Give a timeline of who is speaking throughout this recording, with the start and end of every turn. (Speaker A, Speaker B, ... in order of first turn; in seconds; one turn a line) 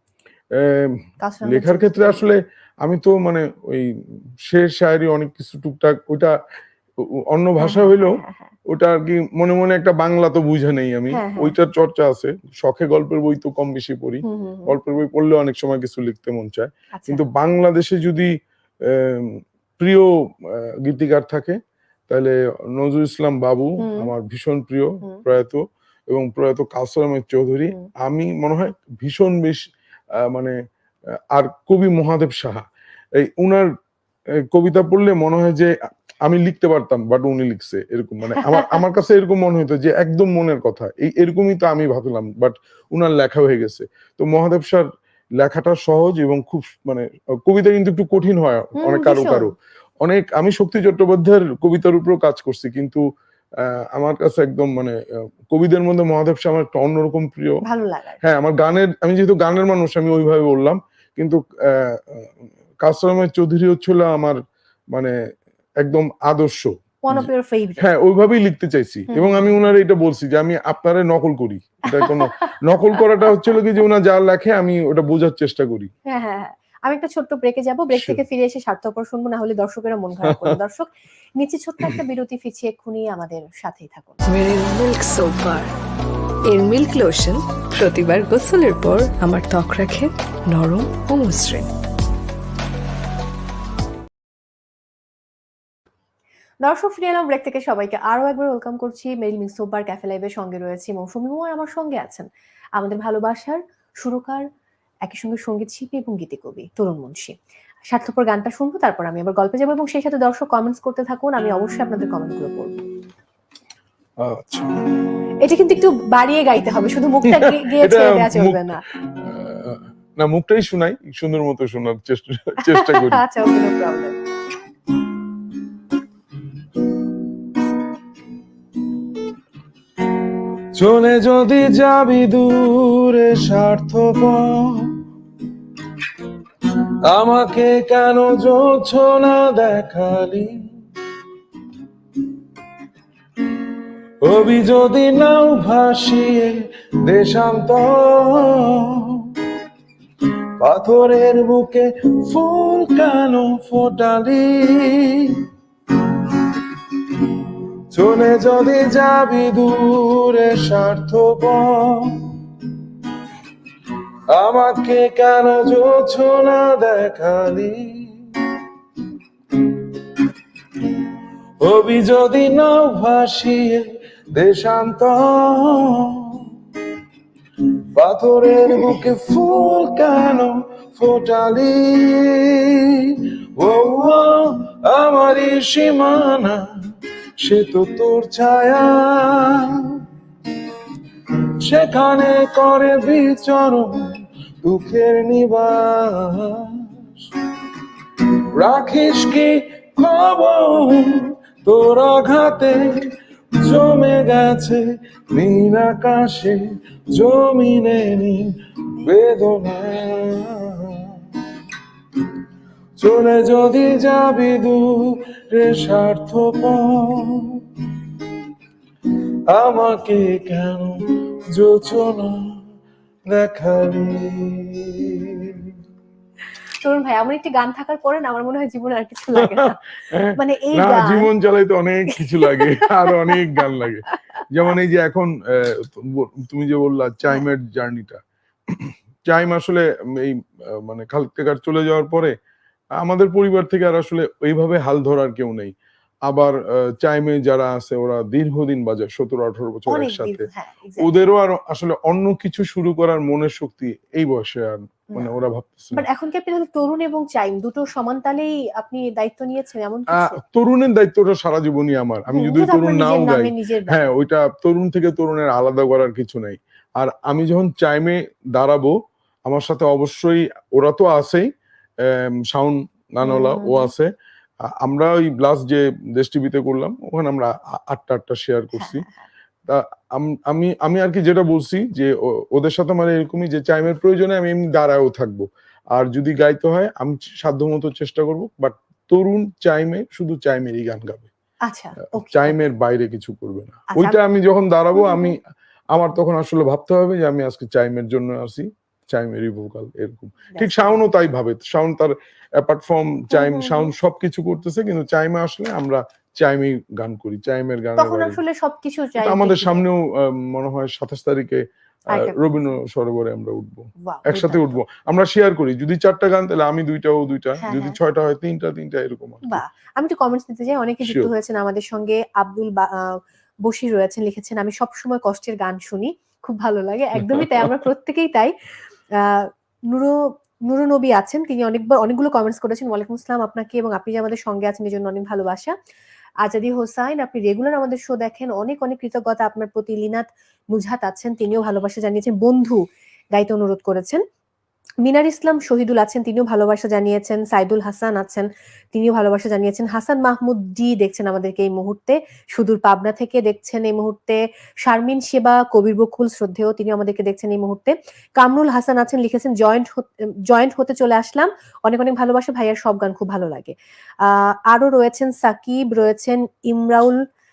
Speaker A: 0.5-6.4
Speaker B: 1.2-2.2
Speaker A: 7.0-21.6
Speaker B: 7.6-8.5
Speaker B: 11.1-11.6
Speaker B: 14.2-14.8
Speaker B: 16.9-17.2
Speaker A: 22.1-30.6
Speaker B: 23.8-24.1
Speaker A: 31.1-33.7
Speaker A: 34.3-53.0
Speaker B: 38.4-38.8
Speaker B: 48.8-49.5
Speaker A: 53.6-57.6
Speaker B: 57.6-58.2
Speaker A: 58.2-64.4
Speaker A: 65.8-75.9
Speaker B: 67.0-67.9
Speaker B: 69.1-69.5
Speaker B: 71.9-72.5
Speaker B: 76.1-84.2
Speaker A: 77.9-78.2
Speaker A: 80.2-80.6
Speaker C: 84.3-85.7
Speaker C: 86.5-91.7
Speaker B: 96.6-104.5
Speaker B: 105.0-107.3
Speaker B: 107.9-112.8
Speaker A: 114.2-114.7
Speaker B: 115.4-118.8
Speaker A: 117.2-123.2
Speaker B: 122.6-124.2
Speaker A: 130.8-135.0
Speaker A: 136.6-140.6
Speaker A: 144.2-149.5
Speaker A: 150.6-162.7
Speaker A: 164.3-168.7
Speaker A: 169.5-170.0
Speaker A: 170.8-176.6
Speaker A: 177.6-186.7
Speaker A: 187.4-190.1
Speaker A: 191.3-197.1
Speaker A: 198.5-211.6
Speaker A: 213.0-218.3
Speaker A: 219.5-222.6
Speaker A: 223.3-225.8
Speaker B: 226.8-229.8
Speaker A: 229.4-242.3
Speaker B: 230.4-231.3
Speaker B: 232.2-233.6
Speaker A: 243.0-245.7
Speaker A: 246.2-250.5
Speaker B: 249.9-251.1
Speaker A: 251.0-256.1
Speaker B: 255.9-260.4
Speaker A: 260.1-271.5
Speaker B: 262.3-264.0
Speaker A: 272.0-274.1
Speaker B: 273.2-273.9
Speaker A: 274.6-279.1
Speaker B: 278.8-279.2
Speaker A: 279.7-291.3
Speaker B: 291.6-292.6
Speaker A: 292.1-295.4
Speaker B: 293.9-294.2
Speaker B: 294.9-295.4
Speaker A: 295.9-308.4
Speaker B: 300.5-301.0
Speaker B: 303.3-303.9
Speaker B: 308.0-309.8
Speaker A: 309.2-319.6
Speaker B: 312.1-312.7
Speaker B: 314.0-314.8
Speaker B: 317.6-318.0
Speaker B: 319.5-328.5
Speaker A: 321.0-321.3
Speaker A: 327.2-327.7
Speaker B: 329.2-335.7
Speaker B: 336.4-342.8
Speaker B: 343.3-344.2
Speaker B: 345.0-367.2